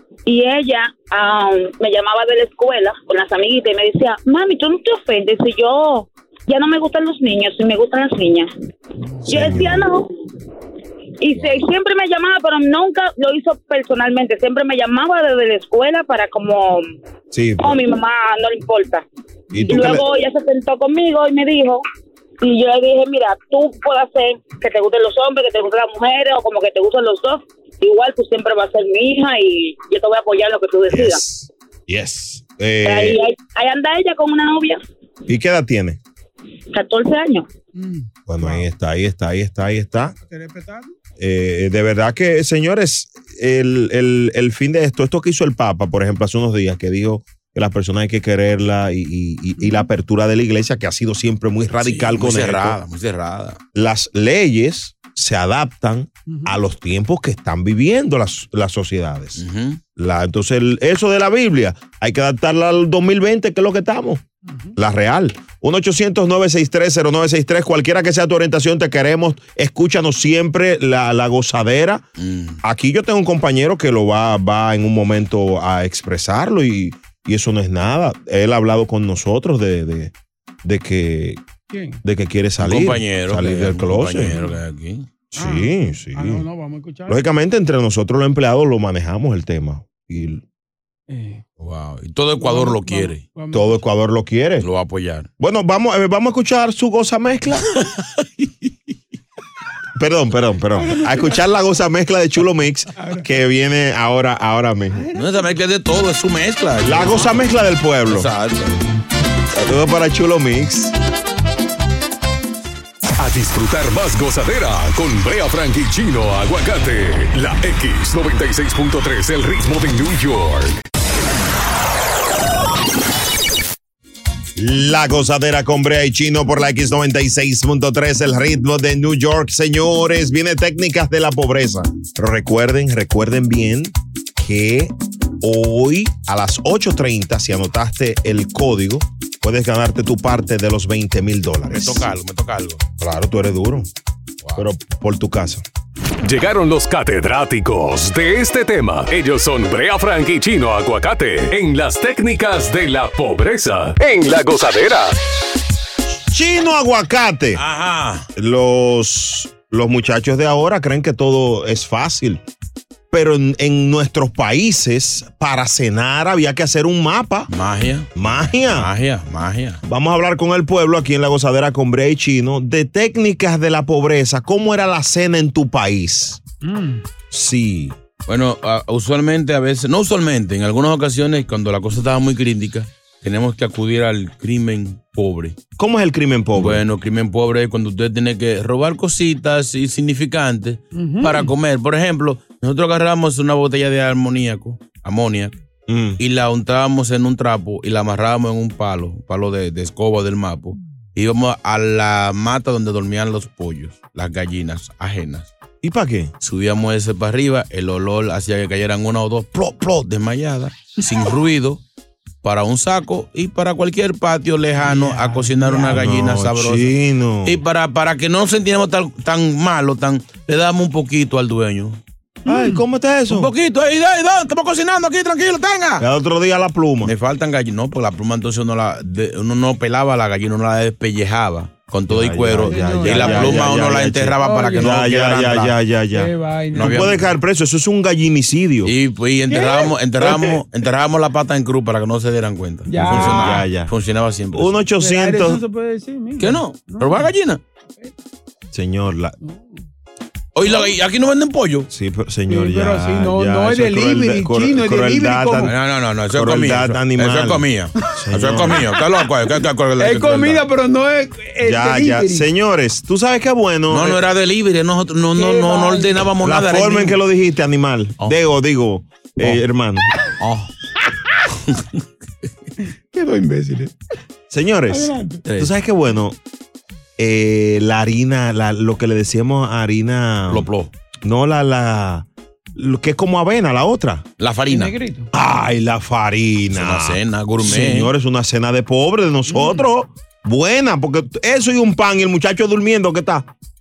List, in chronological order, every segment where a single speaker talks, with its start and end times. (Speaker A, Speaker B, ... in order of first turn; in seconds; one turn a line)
Speaker A: 0.3-8.5
Speaker B: 9.1-9.4
Speaker C: 9.3-9.9
Speaker A: 9.3-10.1
Speaker A: 11.2-16.9
Speaker C: 17.3-17.8
Speaker A: 17.6-19.1
Speaker C: 19.5-20.1
Speaker A: 19.6-21.8
Speaker A: 22.4-31.2
Speaker C: 30.9-33.2
Speaker A: 32.8-34.8
Speaker C: 35.3-36.0
Speaker A: 36.7-37.5
Speaker B: 37.8-38.7
Speaker C: 38.3-40.1
Speaker B: 40.2-40.9
Speaker C: 41.2-52.8
Speaker B: 49.6-49.9
Speaker D: 51.8-53.6
Speaker C: 53.8-59.4
Speaker B: 56.3-56.6
Speaker D: 59.4-59.8
Speaker C: 60.0-64.2
Speaker B: 64.5-64.7
Speaker C: 64.8-72.0
Speaker D: 72.2-72.6
Speaker C: 72.6-80.1
Speaker C: 80.6-81.4
Speaker B: 81.7-82.0
Speaker C: 82.0-84.4
Speaker D: 82.6-85.1
Speaker B: 84.3-84.6
Speaker C: 85.3-86.5
Speaker B: 85.4-87.2
Speaker C: 87.1-90.4
Speaker B: 91.1-91.4
Speaker D: 91.6-93.2
Speaker B: 92.4-93.8
Speaker C: 93.5-94.7
Speaker D: 94.6-95.3
Speaker C: 95.4-97.8
Speaker C: 100.0-105.1
Speaker B: 100.8-101.4
Speaker B: 103.0-103.2
Speaker B: 104.9-105.5
Speaker D: 105.2-107.5
Speaker C: 106.8-108.3
Speaker D: 108.1-108.8
Speaker C: 109.5-110.9
Speaker E: 113.2-120.8
Speaker C: 124.6-142.1
Speaker D: 141.7-142.8
Speaker C: 143.0-143.9
Speaker C: 144.6-145.6
Speaker E: 146.2-155.2
Speaker C: 156.3-157.6
Speaker D: 157.6-158.2
Speaker C: 158.3-162.4
Speaker C: 163.1-167.5
Speaker D: 167.5-168.1
Speaker C: 168.2-168.9
Speaker D: 168.7-169.8
Speaker C: 169.8-176.4
Speaker B: 176.6-177.0
Speaker C: 177.3-178.0
Speaker D: 178.3-185.6
Speaker C: 185.8-186.8
Speaker D: 186.6-195.6
Speaker B: 190.9-191.5
Speaker C: 195.9-196.2
Speaker D: 196.2-205.5
Speaker C: 205.8-206.3
Speaker D: 206.4-211.8
Speaker D: 212.4-216.9
Speaker B: 214.8-216.1
Speaker C: 215.9-217.6
Speaker D: 217.4-222.0
Speaker C: 222.5-223.5
Speaker B: 222.5-222.8
Speaker D: 223.3-226.0
Speaker C: 226.0-227.1
Speaker D: 227.0-235.7
Speaker C: 232.1-238.9
Speaker B: 232.6-233.7
Speaker B: 234.4-235.1
Speaker B: 236.1-237.3
Speaker D: 236.8-237.2
Speaker D: 238.8-244.8
Speaker B: 239.5-239.9
Speaker C: 240.2-240.6
Speaker B: 242.9-243.7
Speaker C: 243.0-243.9
Speaker C: 244.5-245.6
Speaker B: 245.0-247.3
Speaker D: 246.4-247.6
Speaker C: 248.7-249.4
Speaker B: 249.4-249.8
Speaker D: 250.6-251.9
Speaker B: 250.7-250.9
Speaker C: 251.9-255.7
Speaker B: 252.5-255.7
Speaker D: 255.7-260.6
Speaker C: 256.3-258.9
Speaker B: 258.7-259.3
Speaker B: 260.0-262.5
Speaker C: 261.6-264.2
Speaker D: 263.9-267.2
Speaker B: 265.4-266.3
Speaker C: 266.4-270.1
Speaker D: 270.4-270.7
Speaker B: 273.1-273.9
Speaker C: 274.5-276.4
Speaker B: 274.9-275.4
Speaker D: 275.5-275.7
Speaker C: 277.2-280.7
Speaker D: 280.5-280.9
Speaker C: 281.2-284.2
Speaker D: 284.4-284.9
Speaker B: 284.7-285.3
Speaker C: 285.3-293.5
Speaker D: 286.7-288.1
Speaker B: 289.5-289.9